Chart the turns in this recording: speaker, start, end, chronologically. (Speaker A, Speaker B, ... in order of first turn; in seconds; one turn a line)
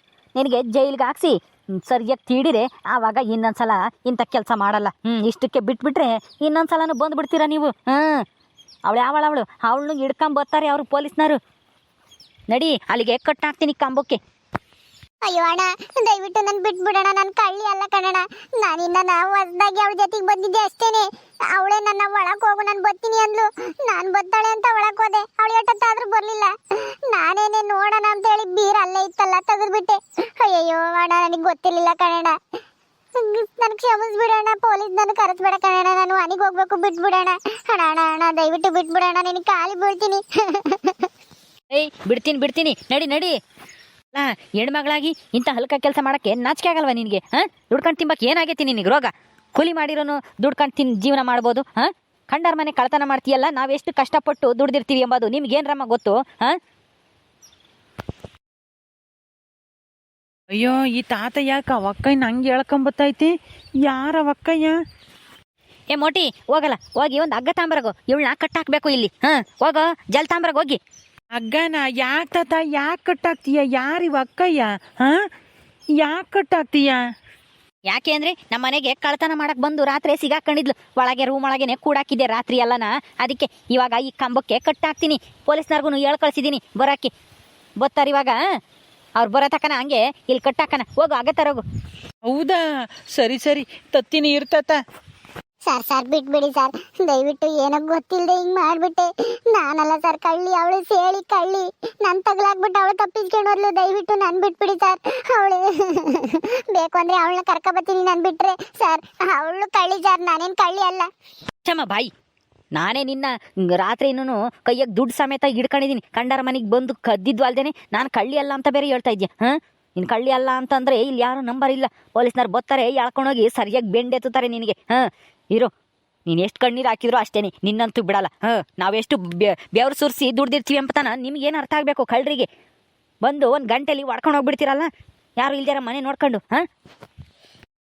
Speaker A: 0.3-8.2
Speaker A: 8.9-11.4
Speaker A: 12.5-14.2
Speaker B: 15.2-26.5
Speaker B: 27.1-32.4
Speaker B: 33.1-41.1
Speaker A: 41.7-43.4
Speaker A: 44.1-56.6
Speaker C: 60.5-64.8
Speaker A: 65.9-70.8
Speaker C: 71.3-75.3
Speaker C: 76.0-77.0
Speaker A: 77.9-87.1
Speaker A: 87.8-88.3
Speaker A: 89.2-91.6
Speaker C: 92.2-94.8
Speaker B: 95.7-111.1
Speaker A: 111.6-112.1
Speaker A: 112.7-125.7
Speaker A: 126.3-132.5
Speaker A: 133.2-134.9
Speaker A: 135.4-136.6